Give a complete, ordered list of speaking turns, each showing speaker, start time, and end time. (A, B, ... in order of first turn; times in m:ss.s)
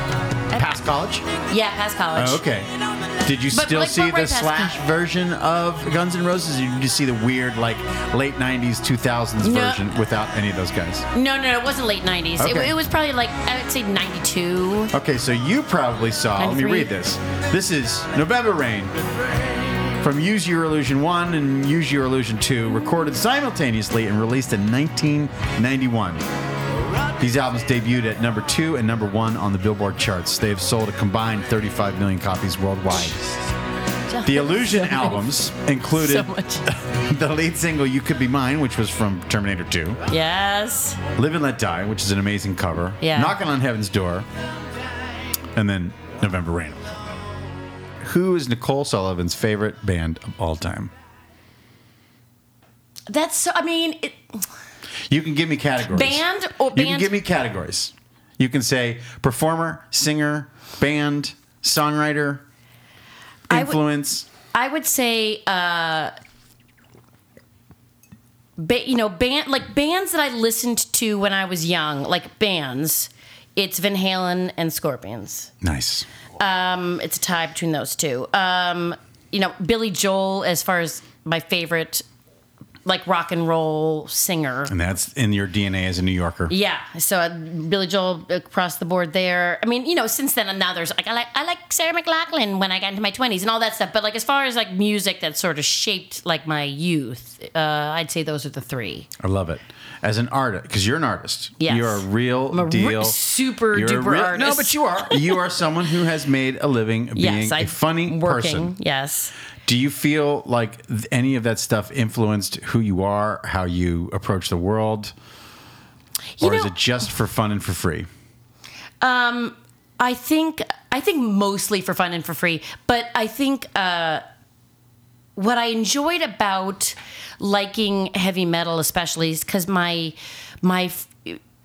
0:00.5-0:01.2 A
0:01.5-0:02.4 B
0:02.2-0:02.7 A
0:03.2-0:11.0 A
0:03.5-0:04.7 B
0:09.4-0:09.8 B
0:11.1-0:14.9 B
0:12.4-0:12.7 A
0:14.9-0:18.9 A
0:16.4-0:16.9 B
0:20.0-0:26.2 A
0:27.2-0:33.2 A
0:34.1-0:35.3 B
0:34.2-0:40.0 A
0:35.9-0:36.6 B
0:40.1-0:41.0 B
0:41.2-0:44.3 A
0:43.0-0:43.3 B
0:45.5-0:47.0 A
0:48.0-0:50.9 A
0:53.1-0:54.2 B
0:55.1-0:56.2 A
0:55.9-0:57.1 B
0:56.7-1:02.4 A
1:03.5-1:04.3 A
1:03.5-1:03.8 B
1:04.5-1:06.1 B
1:08.6-1:15.5 B
1:15.6-1:16.1 A
1:16.4-1:22.0 B
1:22.8-1:24.7 B
1:24.7-1:26.5 A
1:26.5-1:39.1 B
1:39.2-1:43.2 A
1:41.6-1:45.4 B
1:43.7-1:48.7 A
1:47.2-1:49.3 B
1:49.6-1:55.1 A
1:56.4-1:56.7 B
1:56.4-1:58.1 A
1:59.0-2:04.2 B
2:05.4-2:11.4 B